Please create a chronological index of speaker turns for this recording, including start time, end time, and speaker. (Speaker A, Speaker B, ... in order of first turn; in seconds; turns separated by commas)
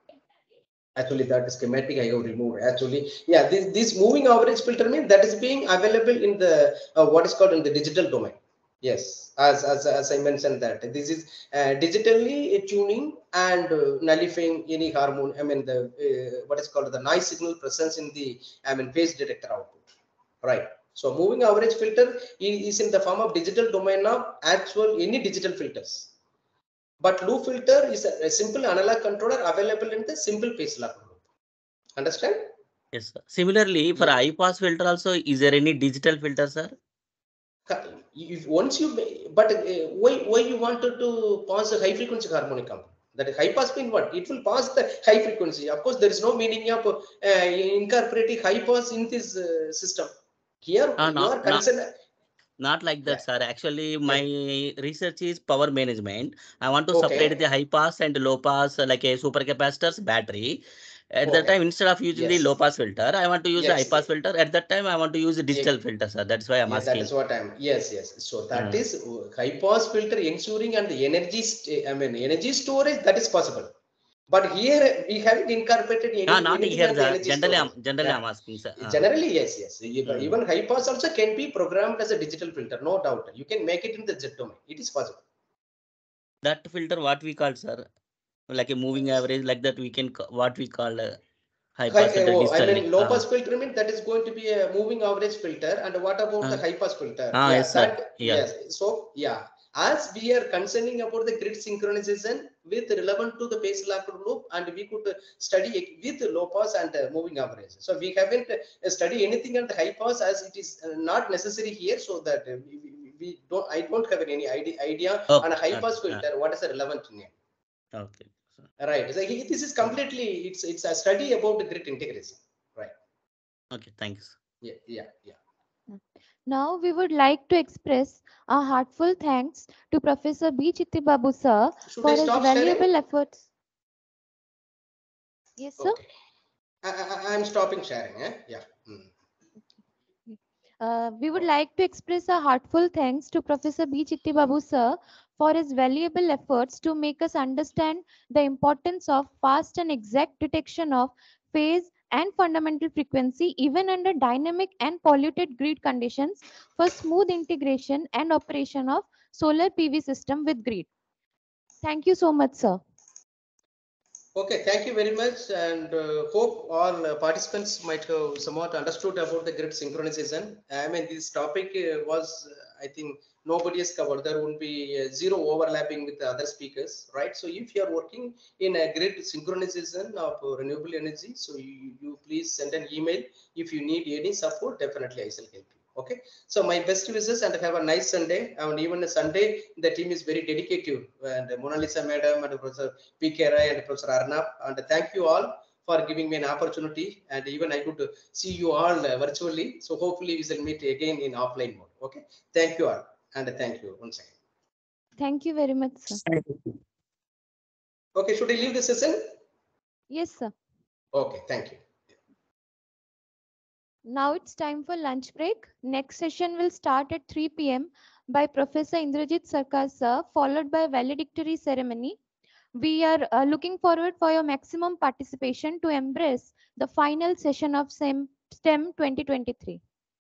Speaker A: 1.0-19.9, Speaker A: 20.4-26.1, Speaker A: 27.0-31.2, Speaker A: 32.0-32.5, Speaker B: 32.9-36.7, Speaker A: 37.7-51.9, Speaker B: 51.0-51.6, Speaker B: 52.6-60.6, Speaker A: 56.9-57.4, Speaker B: 61.1-67.1, Speaker A: 61.2-61.5, Speaker A: 62.1-62.5, Speaker A: 63.6-64.0, Speaker A: 66.7-73.7, Speaker B: 68.5-68.8, Speaker A: 74.3-78.2, Speaker B: 76.3-79.1, Speaker A: 78.8-85.2, Speaker B: 80.1-80.4, Speaker B: 86.4-87.9, Speaker B: 88.5-91.2, Speaker B: 91.8-93.2, Speaker A: 91.9-117.3, Speaker B: 97.3-98.4, Speaker B: 115.3-116.2, Speaker B: 117.9-118.3, Speaker A: 118.8-122.9, Speaker B: 123.7-124.3, Speaker A: 124.6-125.4, Speaker C: 126.5-133.4, Speaker A: 131.9-132.9, Speaker C: 135.6-136.0, Speaker A: 135.8-136.1, Speaker A: 136.8-139.1, Speaker C: 140.3-160.9, Speaker C: 161.8-162.8, Speaker A: 164.3-204.3, Speaker C: 205.2-206.2, Speaker B: 206.3-206.7, Speaker A: 208.2-209.2, Speaker C: 210.1-210.5, Speaker A: 211.1-211.8, Speaker C: 214.1-222.2, Speaker C: 222.8-229.8